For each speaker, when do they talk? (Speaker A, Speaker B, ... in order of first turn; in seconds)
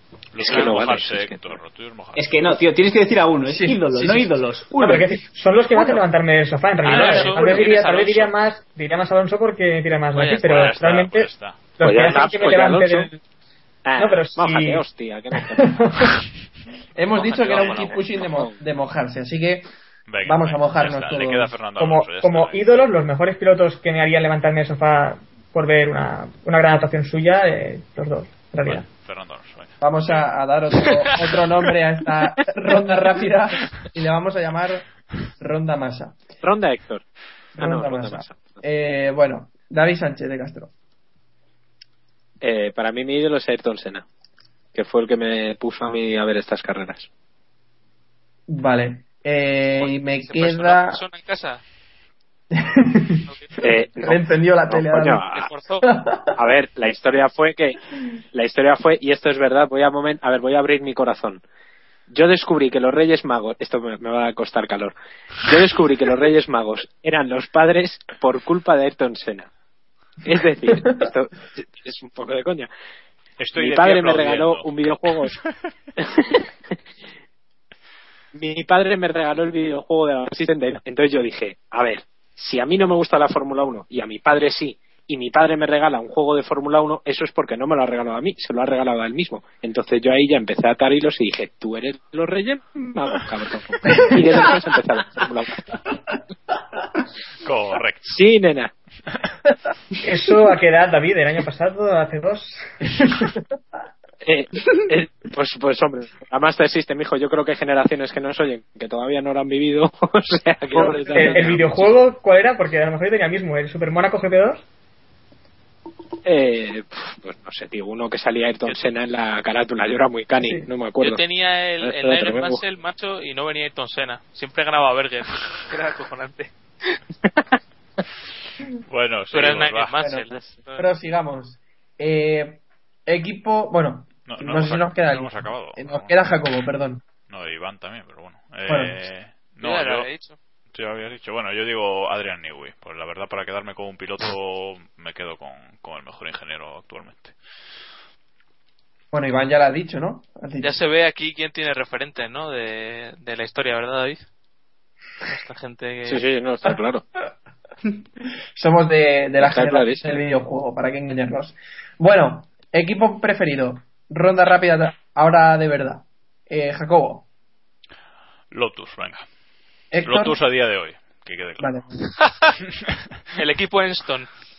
Speaker A: 0.3-2.6, 10.5-11.6, 20.1-22.8, 28.6-30.2, 73.4-74.7, 97.4-98.2, 128.9-129.9, 134.2-136.2, 137.3-140.1, 140.7-147.3, 168.5-169.2, 170.0-171.8
Speaker B: 0.4-1.4, 11.8-13.1, 13.8-15.9, 36.4-37.0, 37.5-38.6, 42.4-44.0, 44.7-47.1, 53.6-55.5, 56.4-57.8, 58.3-61.4, 62.1-69.5, 70.2-72.7, 73.5-75.3, 76.0-76.5, 78.3-95.6, 98.1-98.7, 104.2-111.8, 116.2-121.2, 121.8-122.6, 156.1-157.0, 159.4-160.0
Speaker C: 2.1-5.2
Speaker D: 3.5-4.3, 5.7-6.0, 15.6-16.1, 16.9-19.7, 20.2-21.5, 29.8-34.8, 35.4-36.2, 37.6-40.7, 48.5-51.0, 52.5-53.2, 54.0-55.2, 55.8-56.4, 70.8-71.0, 93.8-94.4, 103.0-103.4, 110.7-111.4, 120.4-120.7, 130.0-137.0, 138.7-139.0, 149.1-150.8, 158.6-167.2, 169.9-170.4, 171.6-172.0
Speaker E: 4.8-11.3, 11.8-13.2, 14.0-14.8, 21.8-28.8, 100.0-102.7, 111.1-114.6
Speaker F: 6.8-8.3, 10.1-10.7, 17.1-18.2, 49.7-51.6, 53.3-53.6, 55.3-55.8, 121.0-126.5, 129.3-130.8, 139.6-140.4, 150.6-154.2, 155.2-156.2, 172.2-172.5, 173.3-174.3